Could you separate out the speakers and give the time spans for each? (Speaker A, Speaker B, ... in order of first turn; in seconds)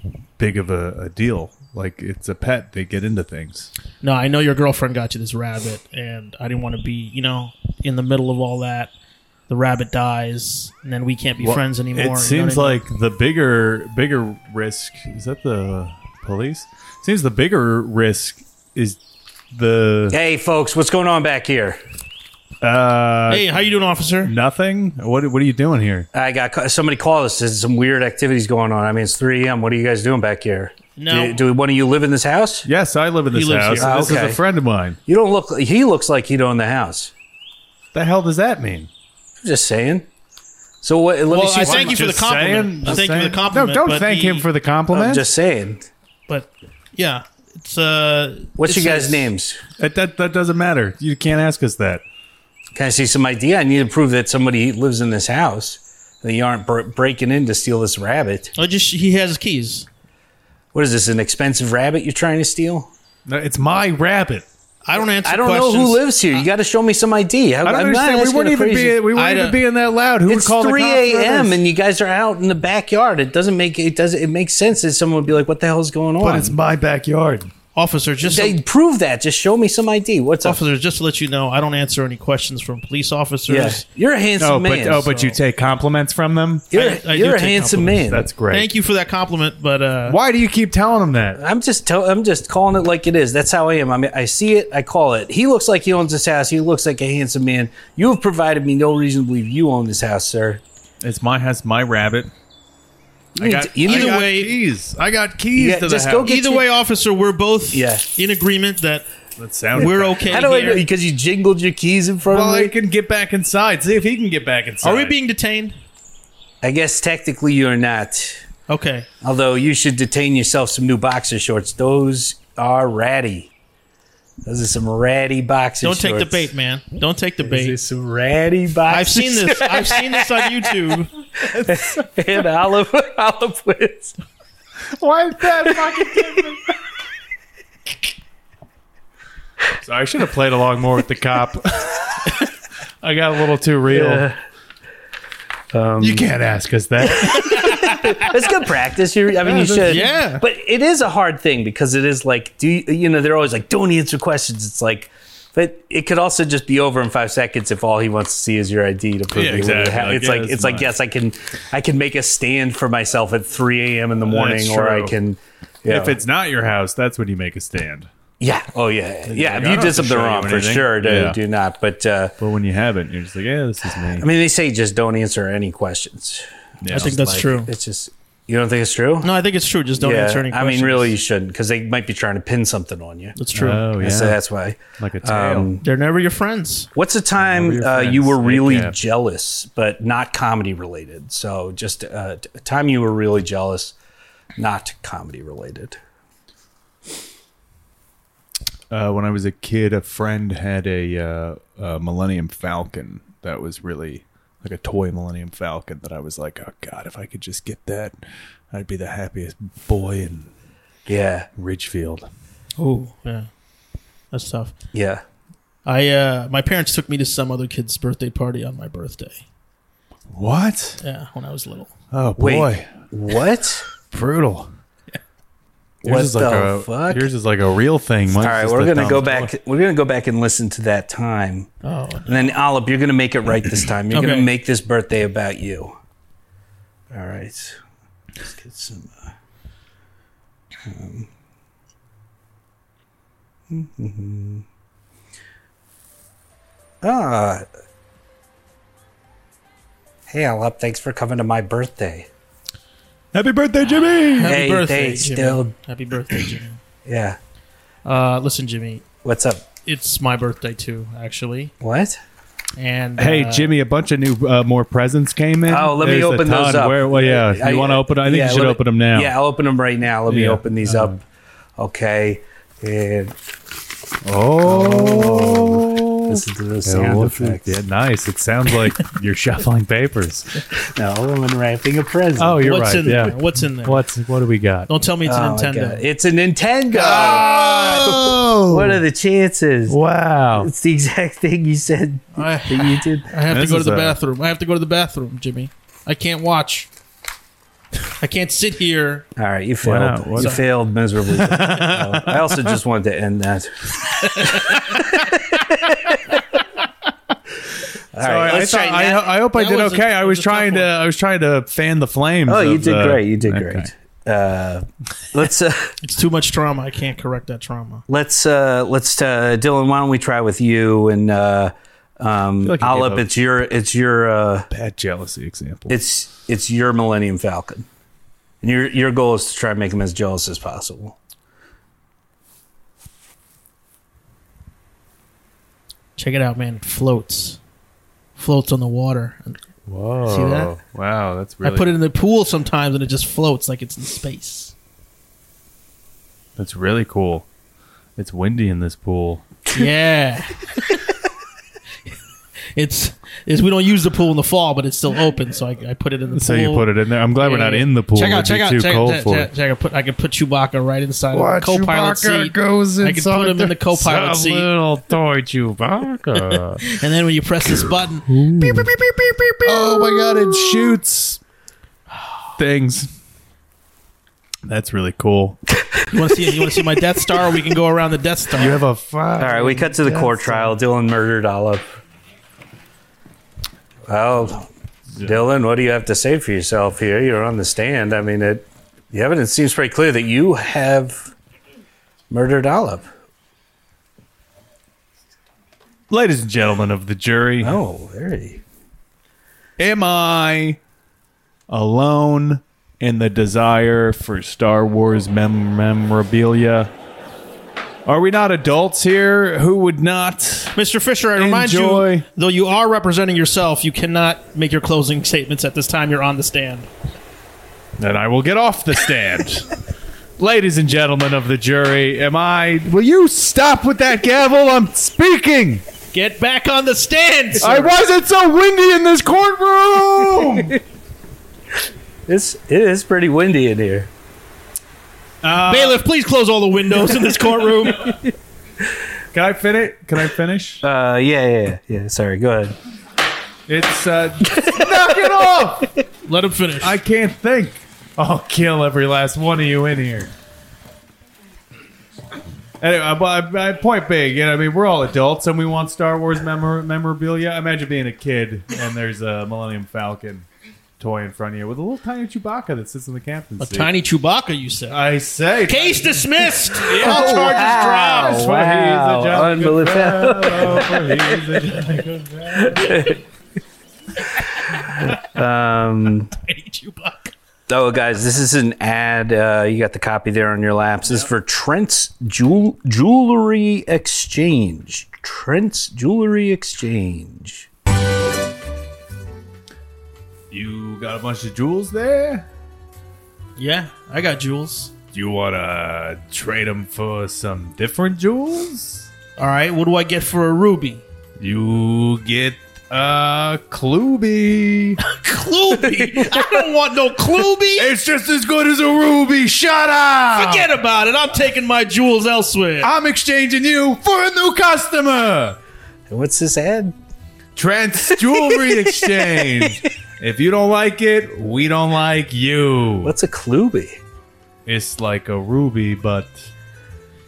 Speaker A: 0.4-3.7, 11.4-19.0, 19.5-20.1, 22.6-23.7, 24.2-26.1, 32.6-35.0, 37.9-38.9, 41.6-45.3, 49.8-52.0, 63.3-64.5, 67.6-71.6, 76.2-77.5, 84.4-86.7, 88.0-88.7, 90.0-91.4, 101.0-102.3, 103.4-106.3, 109.4-110.8, 112.3-115.2, 131.5-132.1, 134.9-136.7, 139.8-142.3, 143.0-144.3, 146.0-147.9, 149.4-150.2, 159.3-160.9, 164.2-165.2, 165.9-168.1, 169.2-171.4, 172.4-174.3, 176.8-177.1, 183.5-184.4, 185.0-185.7, 187.4-189.0, 198.9-208.2, 208.7-210.5, 211.6-212.3, 220.3-221.0, 222.1-222.9, 224.1-224.7, 226.0-229.5, 253.3-254.6, 263.2-269.3, 270.3-271.2, 274.2-280.6, 282.4-284.9, 286.9-289.0, 289.9-290.7, 293.5-294.2, 299.8-300.6, 301.3-302.8, 304.2-305.5, 308.2-313.9, 322.6-323.3, 324.7-326.0, 339.9-341.9, 346.6-347.5, 348.1-349.5, 356.3-359.5, 361.3-366.8, 368.2-368.9, 369.6-371.4, 372.6-373.1, 374.6-375.6, 378.6-380.8, 385.1-385.4, 396.1-397.8, 399.8-400.8, 401.7-406.9, 408.1-410.8, 411.4-412.2, 418.0-419.7, 420.4-425.8, 427.6-430.8, 435.4-436.0, 439.3-440.8, 443.7-445.9, 446.8-450.3, 452.8-460.5, 461.0-463.9, 464.9-473.2, 490.5-492.4, 495.1-499.1, 501.4-505.0, 507.7-510.7, 512.8-515.6, 517.5-523.1, 524.6-526.5
Speaker B: 4.0-8.9, 9.5-12.8, 23.3-24.3, 30.9-31.4, 33.3-34.2, 41.3-44.5, 46.3-49.3, 58.5-59.9, 64.8-66.4, 69.1-69.6, 77.7-78.6, 80.4-83.8, 86.7-90.2, 103.8-104.5, 106.2-109.0, 109.8-110.8, 114.8-115.8, 118.7-119.1, 125.8-127.8, 128.9-131.1, 149.8-150.4, 176.9-177.7, 179.2-181.1, 183.3-183.8, 185.8-186.9, 212.8-213.5, 214.3-214.7, 215.8-219.4, 221.0-221.9, 231.8-232.5, 234.1-234.5, 254.4-256.8, 258.0-259.0, 259.8-261.7, 262.8-263.7, 282.6-284.0, 284.9-286.0, 287.0-288.2, 292.3-296.9, 298.1-299.3, 300.4-300.6, 309.3-310.9, 316.0-318.0, 336.2-337.6, 338.4-339.6, 340.2-340.7, 341.6-344.7, 349.7-351.0, 352.8-364.7, 366.3-368.3, 376.1-378.8, 410.7-416.9, 426.1-427.9, 435.6-438.1, 446.2-446.9, 463.6-465.0, 465.6-468.4, 476.3-477.3, 493.6-494.9, 499.4-501.0, 505.0-507.9, 510.3-512.9
Speaker C: 20.1-21.8, 26.1-32.7, 33.8-34.4, 35.0-37.1, 39.4-40.1, 40.8-42.0, 44.9-45.9, 48.6-49.6, 52.7-58.5, 60.7-62.9, 65.2-69.0, 70.3-76.5, 78.2-80.6, 83.5-85.1, 86.7-88.3, 91.4-100.6, 103.3-104.2, 105.5-106.6, 107.7-108.0, 110.3-112.7, 116.6-118.4, 119.2-123.5, 124.5-126.5, 127.4-130.7, 131.6-134.2, 143.9-144.4, 145.7-146.3, 147.3-166.2, 168.4-172.3, 174.1-179.3, 180.0-183.3, 184.0-185.8, 186.9-193.9, 194.6-196.0, 211.1-211.5, 214.9-215.2, 222.4-223.8, 226.0-227.3, 228.3-231.7, 232.2-235.9, 237.1-237.8, 238.4-239.2, 240.8-241.3, 243.7-244.6, 247.0-247.6, 250.3-252.3, 254.4-255.7, 257.0-257.4, 259.2-259.6, 261.8-262.2, 265.7-271.2, 271.8-273.4, 274.6-277.8, 280.7-282.7, 285.2-290.0, 290.5-293.3, 299.4-306.2, 308.1-309.2, 312.4-316.0, 318.1-324.7, 325.9-327.9, 328.6-331.2, 379.4-381.8, 384.1-391.3, 392.3-393.1, 397.6-398.6, 430.4-430.7, 432.3-434.1, 440.8-442.8, 444.5-445.3, 467.0-471.1, 472.8-473.2, 475.0-476.3, 477.7-487.7, 506.1-506.6, 516.1-516.9, 523.0-524.0